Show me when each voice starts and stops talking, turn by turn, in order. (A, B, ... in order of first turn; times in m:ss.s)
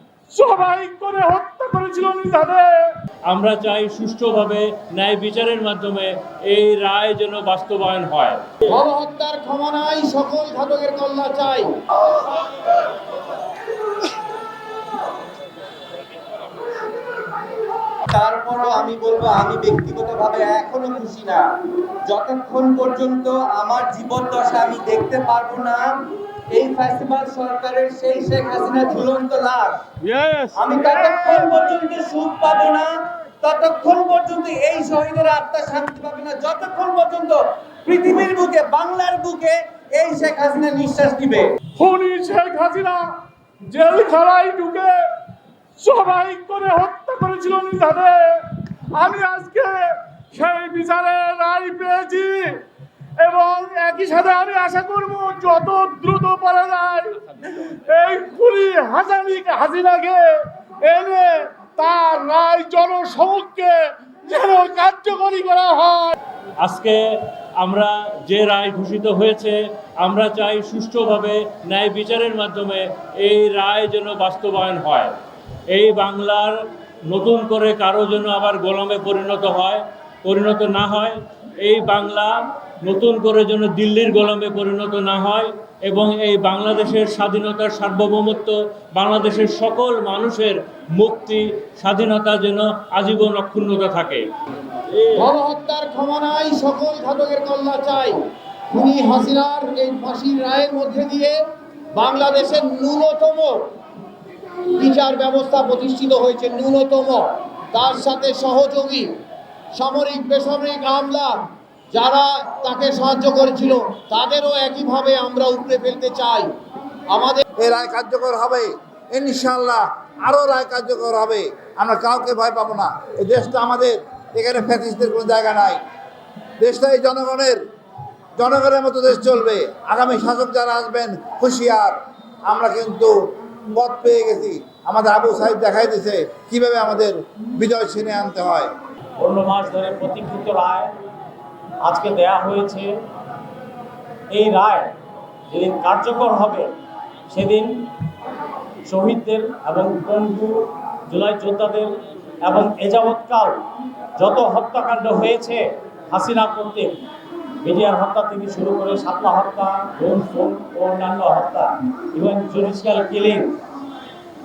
0:00.3-0:02.9 A
0:03.3-0:08.5 B
0:08.7-0:11.8 C
0:18.1-0:21.5 D
0:22.1-0:26.0 D
0:26.5-0:29.9 D
0:30.4-0:41.6 D
0:41.8-0:45.1 A
0:45.8-0:52.6 A
0:53.2-1:06.2 A
1:06.6-1:15.1 B
1:15.7-1:34.2 B
1:35.1-1:41.4 C
1:41.9-1:43.7 C
1:44.7-1:49.1 C
1:49.7-1:56.5 C
1:57.1-1:57.5 C
1:57.5-2:05.8 E
2:06.6-2:07.6 E
2:08.4-2:18.7 E
2:19.2-2:20.9 F
2:21.8-2:23.0 F
2:24.3-2:24.9 F
2:25.5-2:26.7 F
2:27.3-2:27.9 F
2:28.9-2:33.6 F
2:34.2-2:37.0 F
2:37.6-2:43.6 F